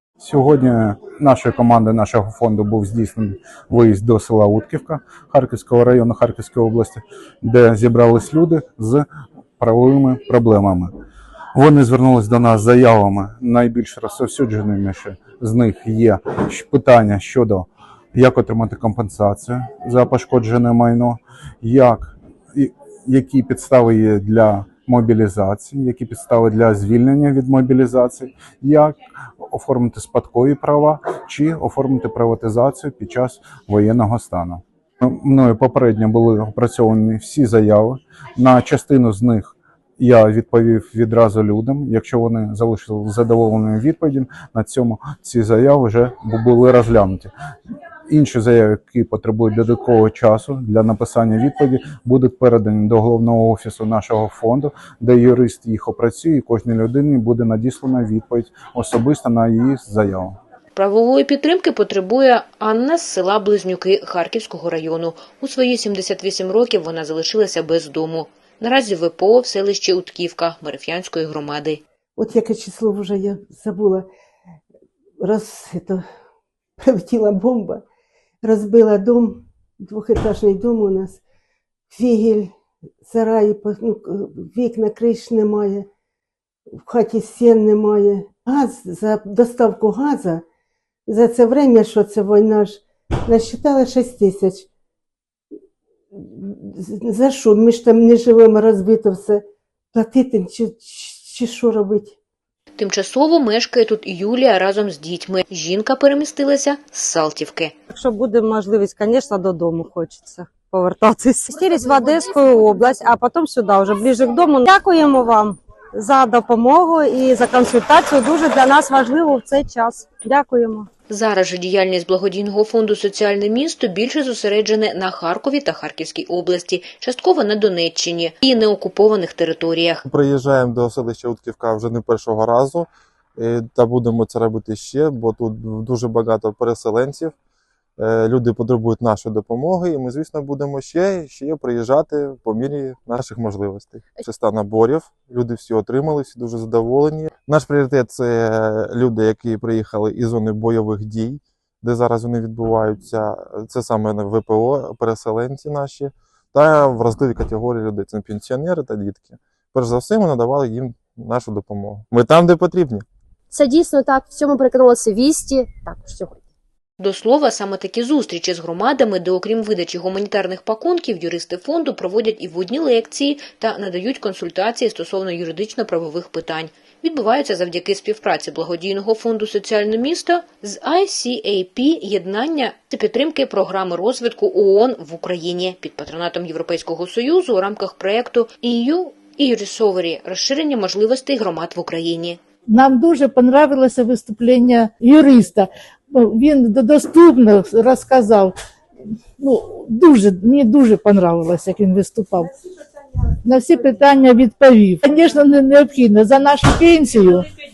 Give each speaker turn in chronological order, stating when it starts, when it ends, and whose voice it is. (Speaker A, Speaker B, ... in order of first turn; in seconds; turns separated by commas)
Speaker A: 0.2-9.1, Speaker A: 9.6-10.9, Speaker A: 11.5-47.3, Speaker A: 48.1-60.4, Speaker B: 60.7-71.8, Speaker C: 72.2-74.1, Speaker C: 75.2-76.0, Speaker C: 76.8-77.8, Speaker C: 78.4-81.2, Speaker C: 81.9-82.5, Speaker C: 83.0-85.9, Speaker C: 86.8-90.4, Speaker C: 91.1-94.7, Speaker C: 96.1-102.2, Speaker B: 102.8-107.7, Speaker D: 107.9-120.9, Speaker B: 121.1-130.0, Speaker E: 130.0-137.3, Speaker E: 138.0-163.1, Speaker F: 163.5-166.4, Speaker B: 167.0-192.4, Speaker G: 192.7-198.5, Speaker G: 199.4-202.5, Speaker G: 203.4-207.5